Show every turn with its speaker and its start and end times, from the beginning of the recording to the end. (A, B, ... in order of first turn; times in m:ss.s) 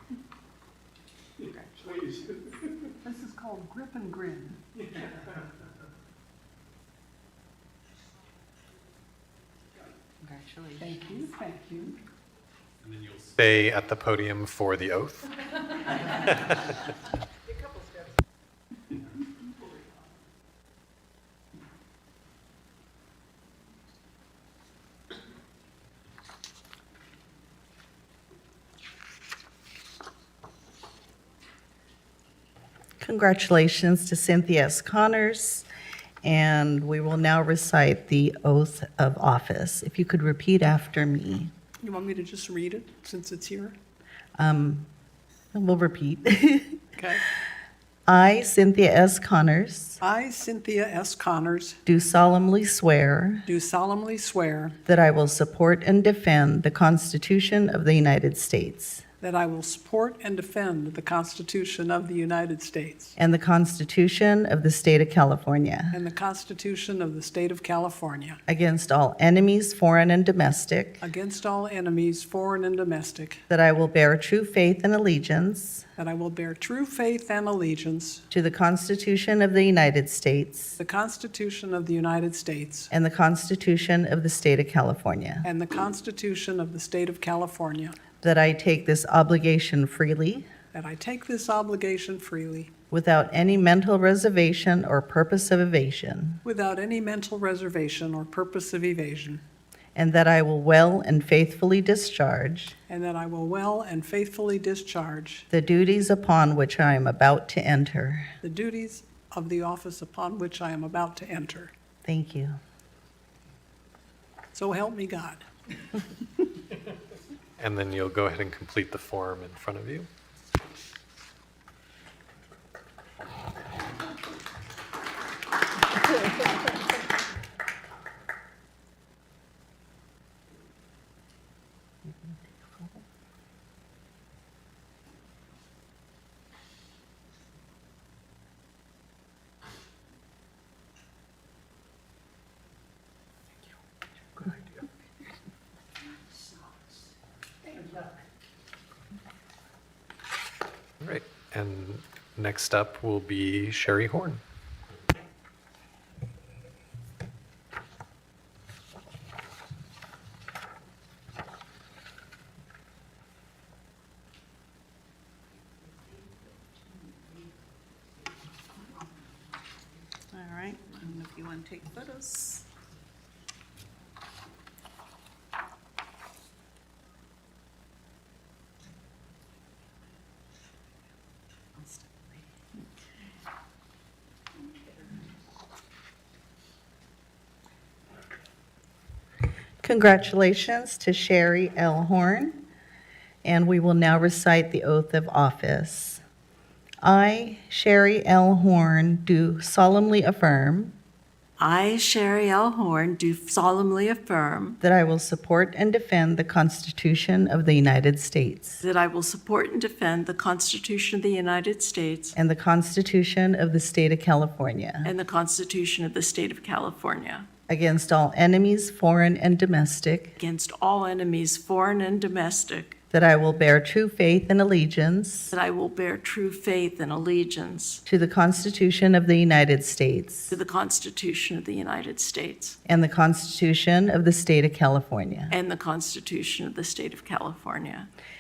0:01.5-0:02.4 A
0:03.0-0:04.6 B
0:10.2-0:10.9 A
0:10.8-0:12.0 B
0:12.8-0:15.4 C
0:33.0-0:35.7 D
0:36.2-0:41.5 D
0:41.8-0:43.8 B
0:44.4-0:44.9 D
0:45.5-0:46.8 D
0:47.0-0:47.2 B
0:48.1-0:50.0 D
0:50.0-0:51.8 B
0:51.9-0:53.4 D
0:53.5-0:54.8 B
0:54.9-0:59.0 D
0:59.2-1:03.2 B
1:03.2-1:06.0 D
1:05.9-1:08.4 B
1:08.5-1:11.0 D
1:11.0-1:13.4 B
1:13.5-1:15.9 D
1:16.0-1:18.2 B
1:18.3-1:20.7 D
1:20.8-1:22.9 B
1:22.9-1:25.5 D
1:25.4-1:28.0 B
1:28.2-1:30.5 D
1:30.7-1:32.7 B
1:32.9-1:36.4 D
1:36.4-1:39.4 B
1:40.0-1:42.8 D
1:42.9-1:45.5 B
1:45.5-1:48.3 D
1:48.4-1:51.7 B
1:52.0-1:52.6 D
1:54.5-1:55.5 B
1:57.6-2:00.1 C
2:12.0-2:13.0 D
2:31.0-2:34.4 C
2:50.3-2:52.6 D
3:09.8-3:12.6 D
3:13.4-3:16.2 D
3:17.0-3:21.0 D
3:21.6-3:24.8 A
3:24.8-3:28.8 D
3:28.8-3:32.4 A
3:32.4-3:35.1 D
3:35.0-3:37.5 A
3:37.7-3:40.4 D
3:40.4-3:43.0 A
3:43.1-3:45.5 D
3:45.5-3:48.0 A
3:48.1-3:50.5 D
3:50.5-3:52.8 A
3:52.9-3:55.5 D
3:55.5-3:58.1 A